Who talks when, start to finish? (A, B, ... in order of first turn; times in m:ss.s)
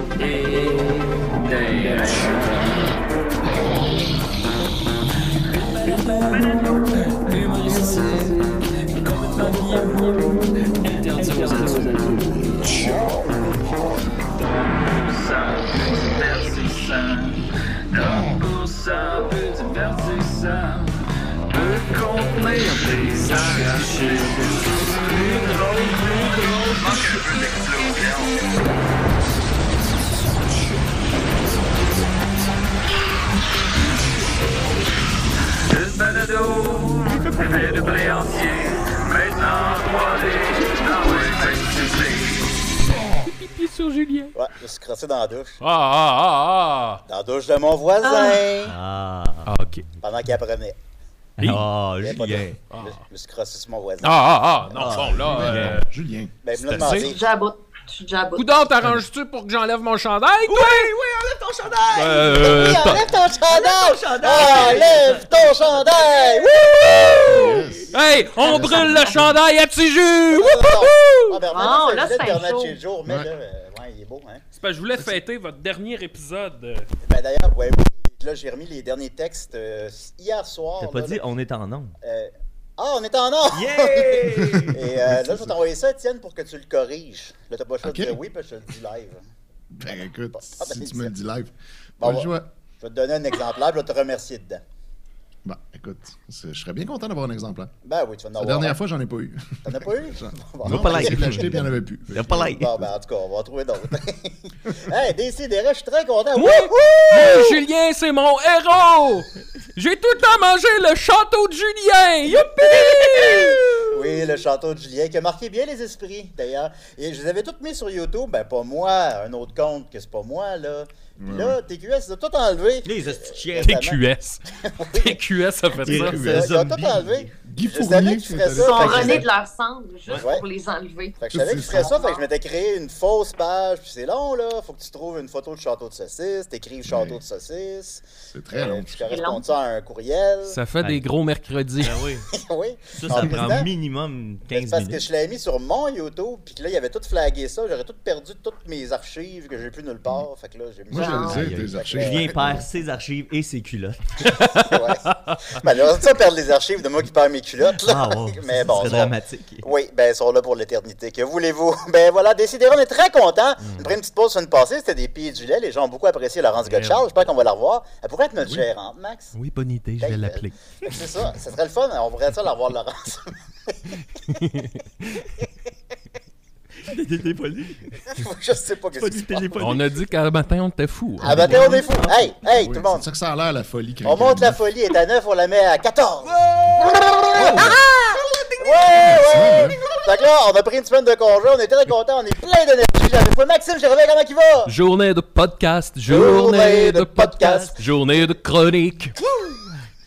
0:00.2-0:02.9 A
0:05.5-0:13.5 A
0:14.4-0:17.4 A
0:17.9-0:20.9 A
0:21.5-0:28.5 A
0:35.6-0:42.6 A
0:42.9-0:44.3 B
0:44.3-0:45.6 C
0:45.6-0:47.0 B
0:47.1-0:48.7 C
0:48.0-0:48.4 D
0:48.6-0:49.5 E
0:49.4-0:49.9 B
0:50.0-0:50.8 C
0:51.4-0:51.6 B
0:51.4-0:52.6 E
0:52.0-0:55.5 C
0:52.7-0:53.0 B
0:54.0-0:55.8 B
0:55.2-0:56.3 F
0:56.4-0:57.2 C
0:56.5-0:57.1 B
0:57.1-0:58.6 D
0:58.4-1:00.9 B
1:00.5-1:06.3 E
1:01.9-1:03.0 B
1:02.4-1:07.6 C
1:04.3-1:04.8 D
1:07.2-1:08.0 F
1:07.9-1:11.4 B
1:08.4-1:09.3 C
1:08.5-1:09.3 F
1:10.3-1:14.4 C
1:11.5-1:12.8 D
1:14.5-1:16.9 B
1:17.0-1:21.2 C
1:20.8-1:21.9 E
1:22.0-1:29.2 C
1:23.5-1:24.8 E
1:24.5-1:25.6 F
1:27.8-1:28.2 F
1:29.7-1:32.5 F
1:29.8-1:31.1 C
1:32.0-1:34.6 C
1:35.4-1:37.7 F
1:37.8-1:38.8 C
1:38.4-1:42.7 F
1:39.6-1:41.6 C
1:40.6-1:41.5 E
1:42.1-1:42.7 E
1:42.4-1:47.5 C
1:46.3-1:54.0 B
1:52.2-2:04.0 C
2:01.2-2:01.5 F
2:02.8-2:03.8 E
2:03.6-2:06.4 B
2:04.6-2:05.2 C
2:05.8-2:07.3 E
2:05.9-2:09.2 C
2:05.9-2:06.4 F
2:07.4-2:09.2 F
2:08.6-2:12.2 D
2:10.1-2:10.4 C
2:11.2-2:20.6 C
2:11.3-2:11.9 F
2:16.8-2:17.2 F
2:18.3-2:19.2 F
2:19.1-2:19.4 D
2:20.4-2:22.0 B
2:21.8-2:22.3 E
2:22.3-2:23.7 C
2:22.9-2:25.0 E
2:24.5-2:32.3 C
2:30.9-2:32.6 F
2:30.9-2:31.4 D
2:31.3-2:34.3 E
2:34.5-2:49.3 C
2:37.8-2:39.6 E
2:43.6-2:43.9 B
2:46.7-2:47.1 B
2:49.3-2:50.6 B
2:50.0-2:54.0 C
2:54.3-2:54.7 B
2:56.8-2:58.0 E
2:58.1-2:59.7 C
2:58.9-2:59.8 E
2:59.6-3:01.8 B
3:01.2-3:03.0 C
3:01.3-3:02.2 E
3:02.4-3:04.6 F
3:04.0-3:07.8 C
3:06.2-3:10.0 E
3:08.6-3:14.7 C
3:09.1-3:09.8 F
3:14.6-3:19.2 B
3:16.1-3:17.8 C
3:17.4-3:17.7 E